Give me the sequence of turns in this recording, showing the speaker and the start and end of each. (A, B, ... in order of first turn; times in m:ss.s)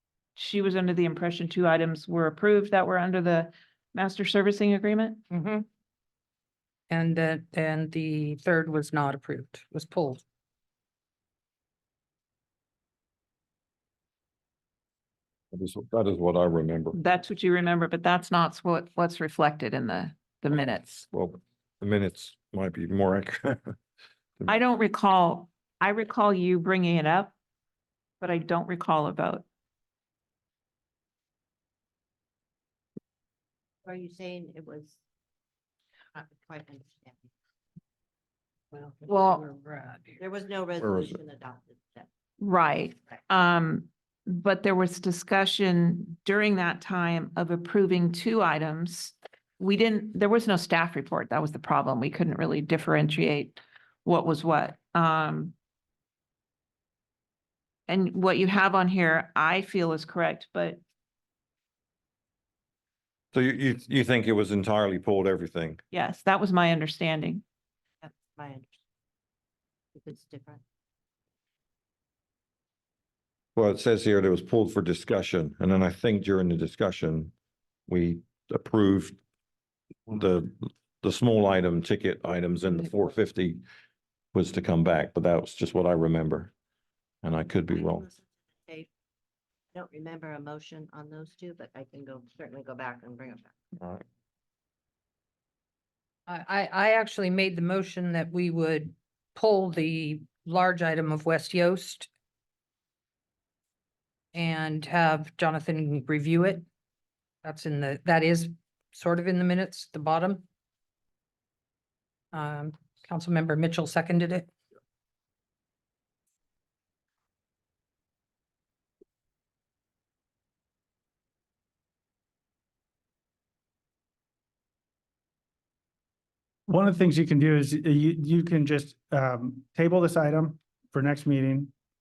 0:00.4-0:05.2 A
0:05.3-0:05.6 B
0:06.9-0:10.2 B
0:15.5-0:16.9 C
0:16.9-0:21.1 A
0:21.1-0:23.7 C
0:24.5-0:27.3 A
0:28.2-0:29.4 A
0:33.8-0:35.0 D
0:36.1-0:37.2 D
0:38.7-0:40.2 B
0:39.1-0:39.4 A
0:40.2-0:42.1 D
0:40.8-0:41.2 C
0:42.4-0:55.5 A
0:57.9-1:00.8 A
1:03.3-1:05.8 C
1:05.9-1:07.4 A
1:08.0-1:08.6 D
1:09.9-1:10.6 D
1:13.5-1:17.3 C
1:17.9-1:19.2 C
1:20.1-1:23.6 C
1:24.3-1:26.5 C
1:27.2-1:28.1 C
1:27.7-1:28.1 D
1:29.7-1:33.5 D
1:36.3-1:42.1 B
1:44.3-1:46.6 B
1:47.4-1:50.4 B
1:52.3-1:54.5 B
2:06.7-2:11.7 E